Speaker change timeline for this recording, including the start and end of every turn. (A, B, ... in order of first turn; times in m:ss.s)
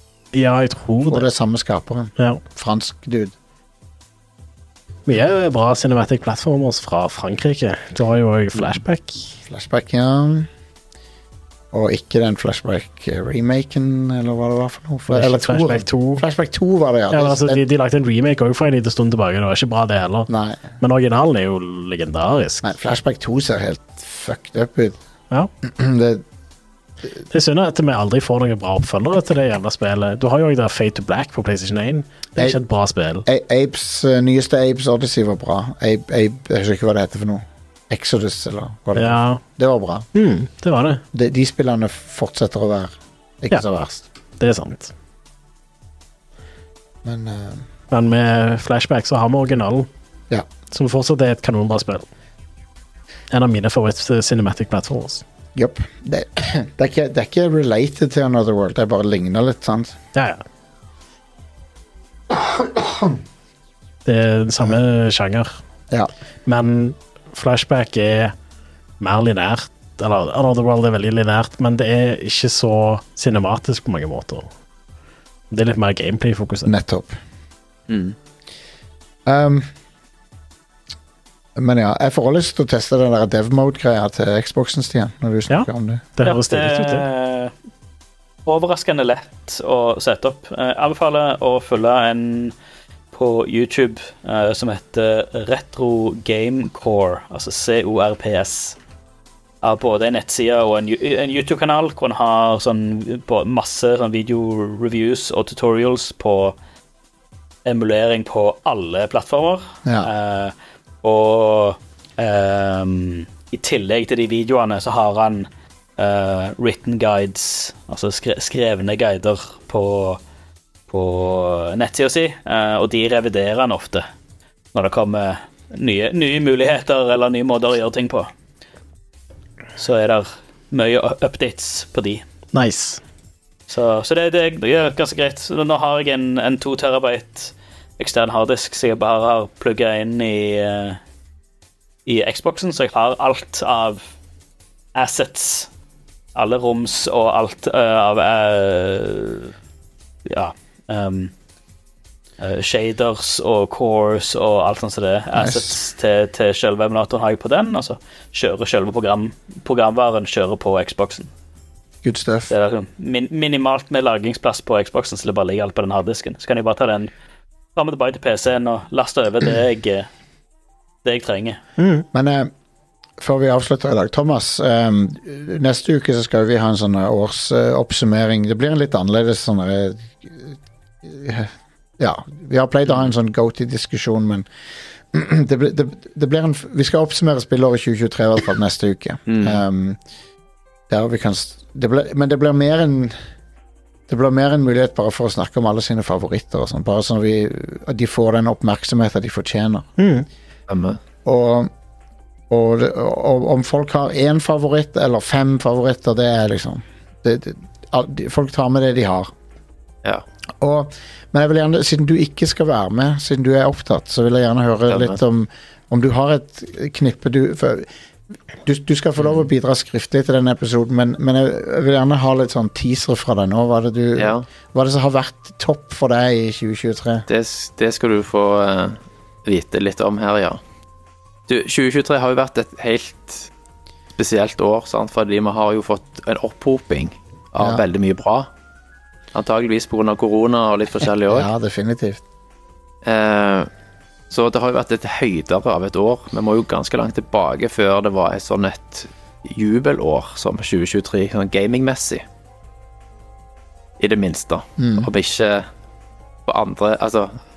0:00.3-0:01.3 A
0:01.1-0:03.3 B
0:05.1-0:09.3 A
0:09.5-0:10.5 B
0:11.7-0:17.6 B
0:15.1-0:16.2 A
0:17.1-0:22.7 A
0:20.3-0:20.7 B
0:22.6-0:25.0 B
0:25.6-0:26.2 B
0:27.3-0:33.3 A
0:33.2-0:40.0 B
0:39.0-0:39.4 A
0:40.1-0:41.0 A
0:41.1-0:44.0 B
0:44.4-0:44.9 A
0:47.0-0:47.6 B
0:47.9-0:49.9 A
0:50.7-0:52.1 A
0:53.3-0:55.2 A
0:55.5-1:00.0 B
1:00.1-1:00.4 A
1:02.3-1:03.2 B
1:04.0-1:05.6 A
1:06.4-1:08.3 A
1:09.0-1:14.5 A
1:15.5-1:16.7 A
1:16.6-1:17.2 B
1:17.9-1:18.1 C
1:19.2-1:19.7 B
1:21.6-1:26.1 B
1:25.5-1:27.0 A
1:26.2-1:27.5 D
1:28.4-1:32.5 D
1:33.1-1:38.8 D
1:39.6-1:46.6 D
1:47.6-2:00.2 D
1:49.8-1:50.1 B
2:00.9-2:04.0 D
2:04.7-2:08.3 D
2:09.8-2:12.2 D
2:12.5-2:13.0 A
2:13.7-2:21.0 D
2:22.0-2:24.0 D
2:24.9-2:25.7 D
2:26.3-2:29.5 D
2:30.3-2:31.3 D
2:32.4-2:41.3 D
2:35.3-2:35.8 B
2:42.0-2:42.5 B
2:42.5-2:47.1 D
2:47.8-2:50.1 D
2:51.0-2:51.6 D
2:51.8-2:52.0 A
2:52.1-2:52.5 B
2:53.2-3:04.5 B
3:05.1-3:10.0 B
3:09.3-3:09.6 C
3:10.9-3:13.1 B
3:14.1-3:19.9 B
3:20.0-3:20.2 A
3:20.7-3:21.0 C
3:21.2-3:21.7 B
3:22.5-3:29.3 B
3:30.6-3:37.9 B
3:34.9-3:35.2 C
3:38.6-3:47.3 B
3:44.2-3:44.4 C
3:47.3-3:50.6 C
3:51.5-3:53.5 C
3:54.2-3:58.5 C
3:59.3-4:01.5 C
4:01.3-4:02.2 B
4:03.0-4:03.7 C
4:04.3-4:12.2 C
4:14.0-4:15.6 C
4:14.8-4:15.1 B
4:16.4-4:17.4 C